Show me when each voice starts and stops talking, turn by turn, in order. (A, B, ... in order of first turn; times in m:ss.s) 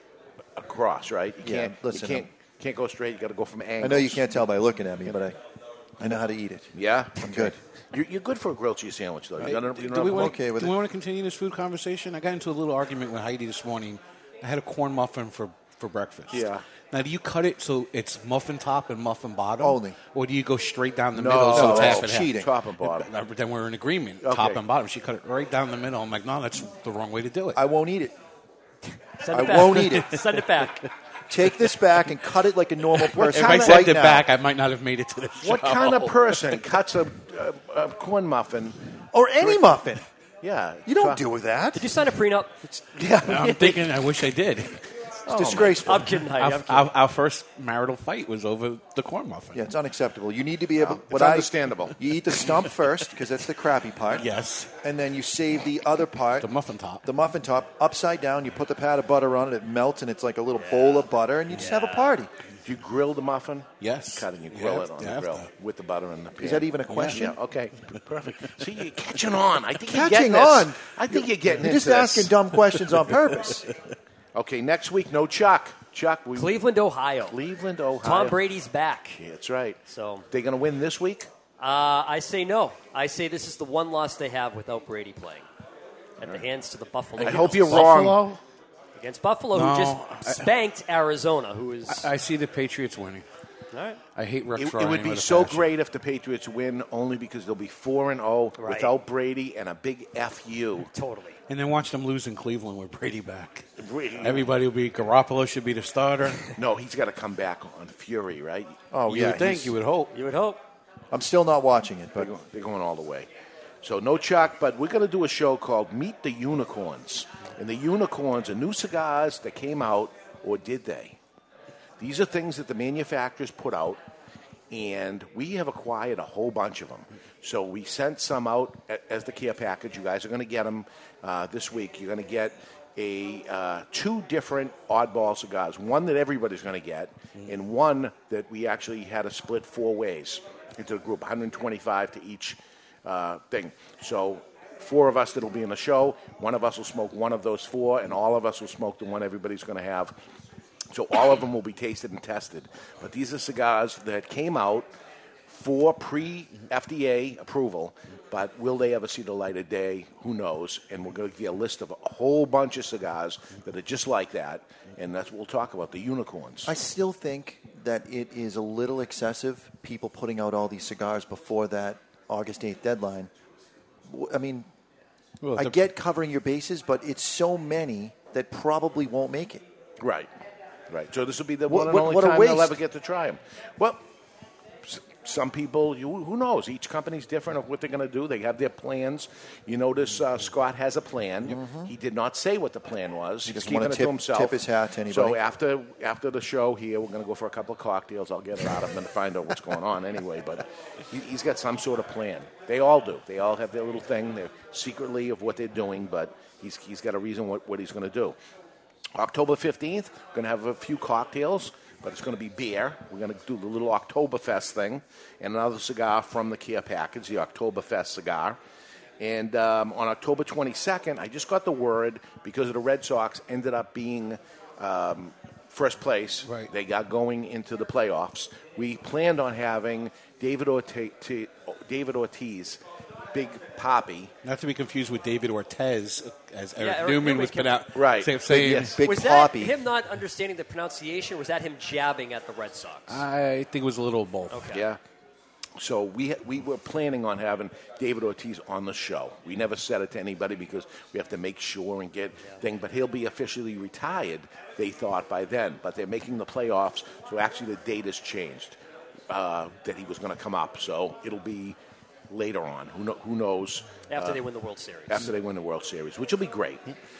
0:00.6-0:04.4 A
0:01.4-0:02.3 B
0:03.8-0:05.4 B
0:06.0-0:07.6 B
0:06.7-0:10.4 A
0:09.4-0:27.6 C
0:10.1-0:10.8 B
0:16.3-0:16.6 A
0:19.6-0:20.0 B
0:21.2-0:23.1 A
0:21.5-0:22.5 B
0:24.2-0:24.6 A
0:27.5-0:28.1 B
0:29.2-0:30.8 D
0:29.3-0:30.2 B
0:29.6-0:30.0 C
0:31.3-0:34.3 B
0:33.1-0:36.6 C
0:33.2-0:33.9 A
0:35.4-0:38.8 A
0:39.1-0:40.0 B
0:39.4-0:39.9 A
0:40.4-0:41.2 A
0:40.8-0:41.8 B
0:41.8-0:42.6 D
0:42.9-0:43.9 A
0:43.2-0:44.8 C
0:45.2-0:46.0 A
0:45.3-0:46.0 B
0:45.8-0:46.9 D
0:46.2-0:49.6 C
0:49.5-0:54.3 B
0:50.8-0:52.0 A
0:54.1-0:54.7 C
0:54.8-0:56.5 B
0:56.4-0:57.0 C
0:57.0-1:02.3 B
1:00.6-1:01.0 D
1:01.6-1:02.1 D
1:02.6-1:12.3 A
1:03.8-1:05.5 C
1:06.4-1:07.4 B
1:06.9-1:07.2 C
1:09.9-1:13.7 B
1:14.3-1:16.6 A
1:16.4-1:17.4 D
1:17.3-1:18.4 A
1:18.0-1:19.2 D
1:19.2-1:19.8 A
1:19.9-1:20.2 D
1:20.3-1:21.3 A
1:21.6-1:25.4 D
1:26.2-1:28.1 D
1:27.2-1:28.3 A
1:27.2-1:28.4 C
1:29.0-1:32.1 D
1:29.5-1:30.5 C
1:31.9-1:33.2 C
1:33.7-1:34.0 D
1:34.2-1:35.7 C
1:34.6-1:40.9 A
1:38.6-1:38.9 D
1:40.9-1:41.4 D
1:41.5-1:43.7 C
1:43.8-1:44.5 A
1:44.2-1:46.5 C
1:46.5-1:48.8 A
1:48.9-1:49.7 B
1:49.1-1:50.1 C
1:50.1-1:50.6 D
1:51.1-1:52.3 B
1:52.2-1:53.3 A
1:53.8-2:01.2 A
2:02.0-2:04.0 A
2:04.7-2:30.2 A
2:30.9-2:34.9 A
2:35.5-2:46.7 A
2:46.6-2:53.3 B
2:54.1-2:54.7 B
2:55.4-2:55.8 C
2:55.5-2:59.6 B
3:00.0-3:00.3 A
3:00.9-3:04.0 A
3:01.7-3:02.8 B
3:04.8-3:28.4 A
3:11.4-3:11.9 B
3:13.4-3:15.4 B
3:29.1-3:38.6 A
3:39.2-3:52.8 A
3:46.4-3:46.7 C
3:53.3-3:54.3 A
3:54.4-3:59.0 C
3:56.8-3:57.7 D
3:57.9-3:58.9 A
3:58.5-3:59.8 B
3:59.0-4:03.2 D
4:03.1-4:04.6 C
4:04.5-4:04.8 D
4:04.7-4:05.0 A
4:05.8-4:18.8 A
4:19.3-4:21.8 A
4:22.3-4:24.4 A
4:24.1-4:25.3 D
4:25.1-4:26.9 A